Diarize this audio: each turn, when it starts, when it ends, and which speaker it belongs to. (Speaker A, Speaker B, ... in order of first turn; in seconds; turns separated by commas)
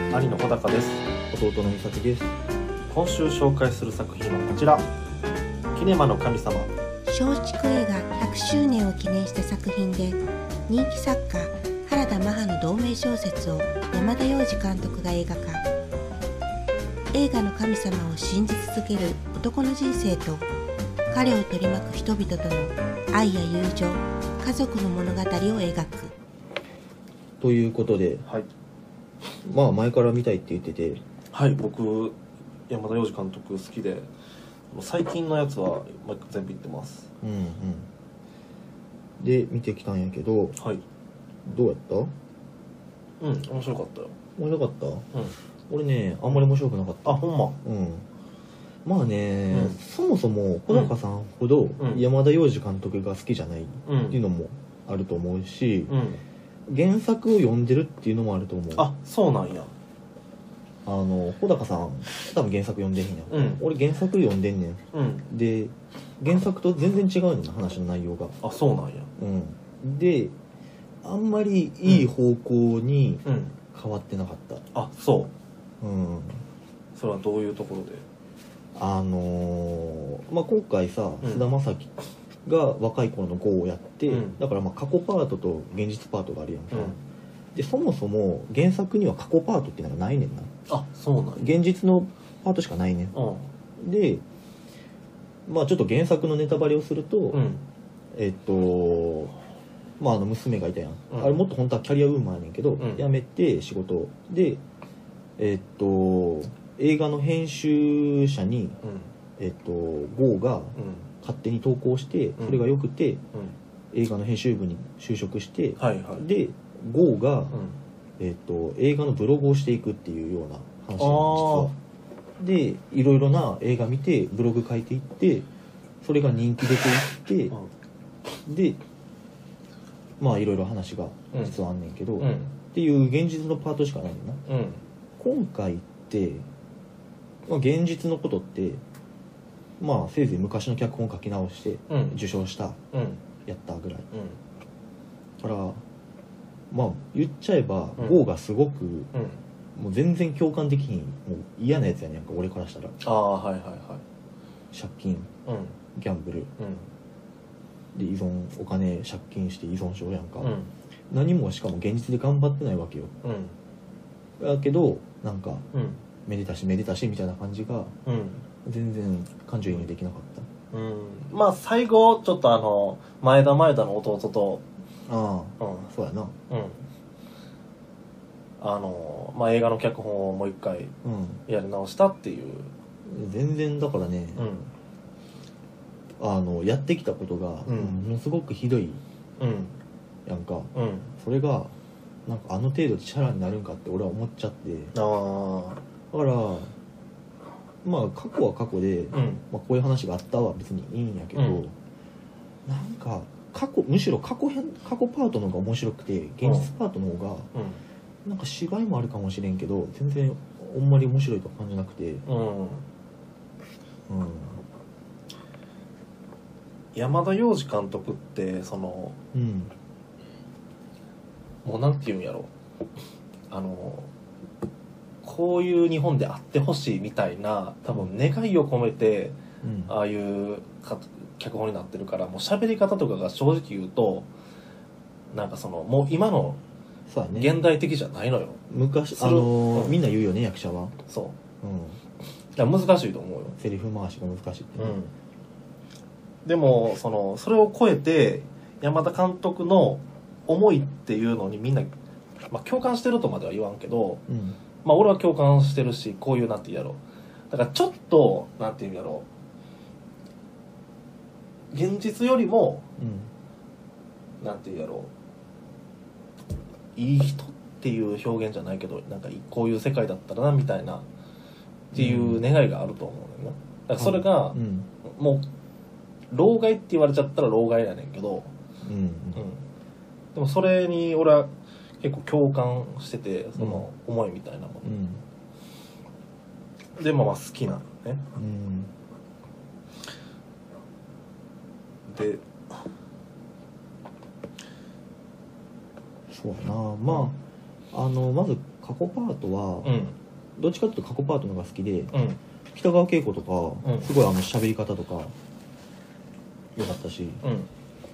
Speaker A: 0.1-1.1, Speaker B: 1.3-2.3, Speaker A: 2.9-4.9, Speaker A: 5.7-6.7, Speaker C: 7.1-15.6, Speaker C: 17.1-20.5, Speaker C: 21.1-26.1, Speaker B: 27.4-28.2, Speaker A: 28.2-28.5, Speaker B: 29.4-31.0, Speaker A: 31.3-34.1, Speaker A: 34.7-37.1, Speaker B: 37.2-37.9, Speaker B: 39.2-40.6, Speaker A: 40.6-40.8, Speaker B: 41.4-42.1, Speaker A: 43.2-44.2, Speaker B: 44.4-45.1, Speaker B: 45.7-48.1, Speaker A: 47.0-47.6, Speaker B: 48.8-56.0, Speaker A: 49.5-49.8, Speaker A: 50.7-50.9, Speaker A: 51.8-52.1, Speaker A: 53.9-54.2, Speaker A: 55.9-56.2, Speaker B: 56.7-58.9, Speaker A: 58.7-59.7, Speaker B: 60.9-68.4, Speaker A: 63.3-63.7, Speaker A: 64.9-65.3, Speaker A: 68.4-69.1, Speaker B: 69.2-70.3, Speaker B: 71.0-74.7, Speaker A: 71.8-72.1, Speaker A: 73.2-73.6, Speaker A: 74.7-75.3, Speaker B: 75.8-76.4, Speaker A: 76.9-78.0, Speaker B: 78.7-81.9, Speaker A: 81.2-81.5, Speaker B: 82.4-87.0, Speaker A: 84.1-84.4, Speaker A: 86.7-87.0, Speaker B: 87.5-90.5, Speaker A: 90.7-91.6, Speaker B: 91.3-93.2, Speaker A: 93.1-93.5, Speaker B: 93.8-94.2, Speaker B: 95.5-97.5, Speaker A: 97.3-97.6, Speaker B: 98.1-99.4, Speaker B: 100.0-104.6, Speaker A: 101.1-101.4, Speaker A: 102.8-103.1, Speaker B: 105.4-108.8, Speaker A: 108.8-109.1, Speaker B: 109.4-113.2, Speaker A: 110.7-111.1, Speaker A: 112.4-112.7, Speaker B: 113.9-117.6, Speaker A: 115.8-116.3, Speaker A: 117.5-117.8, Speaker B: 118.2-121.7, Speaker A: 121.0-121.7, Speaker B: 122.4-125.5, Speaker B: 126.0-127.6, Speaker B: 128.4-128.8, Speaker B: 130.2-134.4, Speaker A: 131.3-131.6, Speaker A: 132.2-132.6, Speaker A: 134.5-134.8, Speaker B: 135.2-136.5, Speaker B: 137.4-138.8, Speaker B: 139.8-142.8, Speaker A: 141.9-142.2, Speaker A: 142.9-143.2, Speaker B: 143.4-144.1, Speaker A: 144.1-144.4, Speaker B: 145.4-145.8, Speaker B: 146.7-149.1, Speaker A: 149.1-149.4, Speaker B: 149.7-153.0, Speaker A: 153.0-154.0, Speaker B: 154.7-155.3, Speaker A: 155.4-155.8, Speaker B: 155.9-156.5, Speaker A: 156.6-156.9, Speaker B: 157.9-160.5, Speaker A: 160.4-160.7, Speaker B: 161.1-163.1, Speaker A: 163.2-163.6, Speaker B: 164.4-165.7, Speaker A: 165.7-166.0, Speaker B: 166.2-167.9, Speaker A: 168.0-168.4, Speaker B: 168.6-170.5, Speaker A: 170.7-174.6, Speaker B: 175.1-176.3, Speaker A: 175.6-175.9, Speaker A: 176.5-176.8, Speaker A: 178.6-180.9, Speaker B: 181.0-181.4, Speaker A: 181.4-182.7, Speaker B: 183.0-184.5, Speaker A: 184.3-184.7, Speaker B: 186.2-189.0, Speaker A: 187.7-188.1, Speaker A: 189.4-189.8, Speaker B: 190.2-191.7, Speaker A: 190.7-191.1, Speaker B: 192.2-194.9, Speaker A: 194.9-195.8, Speaker B: 196.1-196.7, Speaker B: 197.8-201.7, Speaker A: 199.1-199.4, Speaker A: 201.3-201.6, Speaker B: 202.7-207.5, Speaker A: 206.4-206.7, Speaker A: 207.5-207.8, Speaker B: 208.2-212.2, Speaker A: 212.2-212.8, Speaker B: 214.1-214.6, Speaker A: 216.9-219.2, Speaker B: 219.3-219.7, Speaker A: 221.6-222.5, Speaker A: 223.5-224.1, Speaker A: 225.2-234.3, Speaker B: 229.6-229.9, Speaker A: 235.3-236.6, Speaker B: 237.1-237.7, Speaker A: 237.3-238.6, Speaker B: 238.7-240.9, Speaker A: 239.1-240.0, Speaker A: 241.1-241.4, Speaker B: 241.6-242.0, Speaker A: 242.5-243.6, Speaker B: 243.6-245.0, Speaker A: 244.8-245.1, Speaker A: 246.4-251.9, Speaker A: 252.5-254.2, Speaker B: 254.3-254.6, Speaker A: 254.8-259.3, Speaker A: 261.7-262.9, Speaker B: 263.0-263.3, Speaker A: 264.4-265.1, Speaker A: 266.9-271.1, Speaker A: 271.9-275.5, Speaker B: 271.9-272.5, Speaker B: 273.9-274.9, Speaker A: 276.3-278.5, Speaker B: 278.8-279.4, Speaker A: 279.3-279.6, Speaker A: 280.3-285.0, Speaker B: 283.6-283.8, Speaker B: 284.8-285.2, Speaker A: 287.0-288.2, Speaker B: 288.3-288.9, Speaker A: 292.1-292.9, Speaker B: 296.3-297.4, Speaker B: 297.9-300.0, Speaker A: 299.8-300.2, Speaker B: 300.6-302.1, Speaker A: 302.1-302.4, Speaker B: 302.7-305.3, Speaker A: 303.8-304.1, Speaker B: 306.8-307.4, Speaker A: 307.4-307.7